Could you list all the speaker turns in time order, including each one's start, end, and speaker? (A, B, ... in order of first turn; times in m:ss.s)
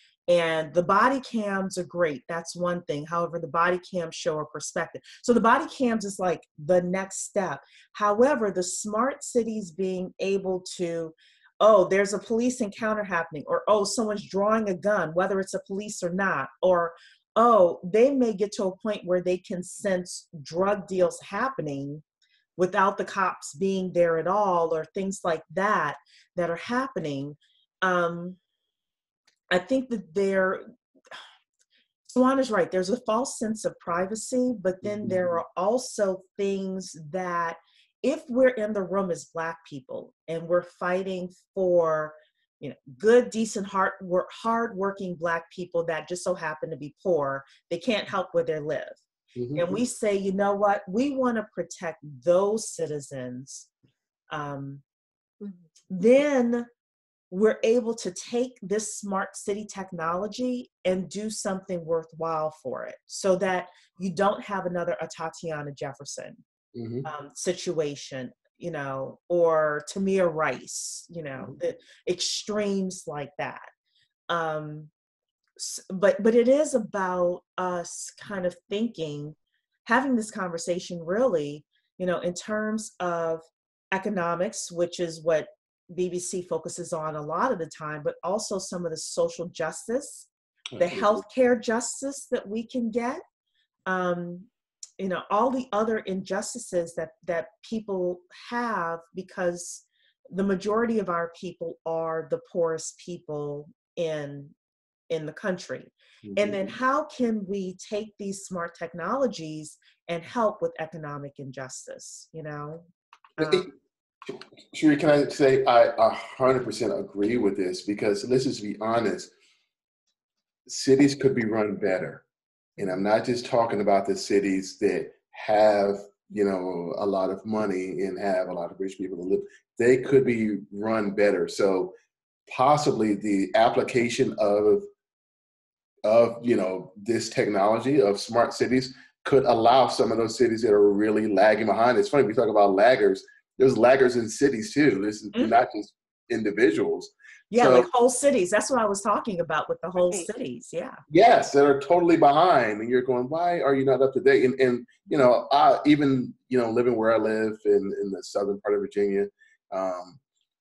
0:00.3-0:22.0 A
0:22.6-0:28.4 A
0:29.5-0:30.7 A
0:32.2-0:49.0 A
0:34.8-0:35.4 B
0:49.4-0:49.8 B
0:49.6-0:53.7 A
0:54.3-0:54.8 A
0:55.9-0:56.7 A
0:57.3-1:06.4 A
1:06.8-1:07.1 B
1:07.0-1:13.7 A
1:14.3-1:14.9 A
1:15.6-1:33.2 A
1:30.7-1:31.2 B
1:33.9-1:34.5 A
1:35.0-1:44.5 A
1:45.1-1:53.7 A
1:46.2-1:46.7 B
1:53.4-1:53.7 B
1:54.3-1:59.3 B
2:00.7-2:02.2 B
2:02.8-2:03.0 A
2:02.8-2:11.9 B
2:12.5-2:14.9 B
2:16.0-2:27.9 B
2:27.5-2:31.0 A
2:31.1-2:40.2 B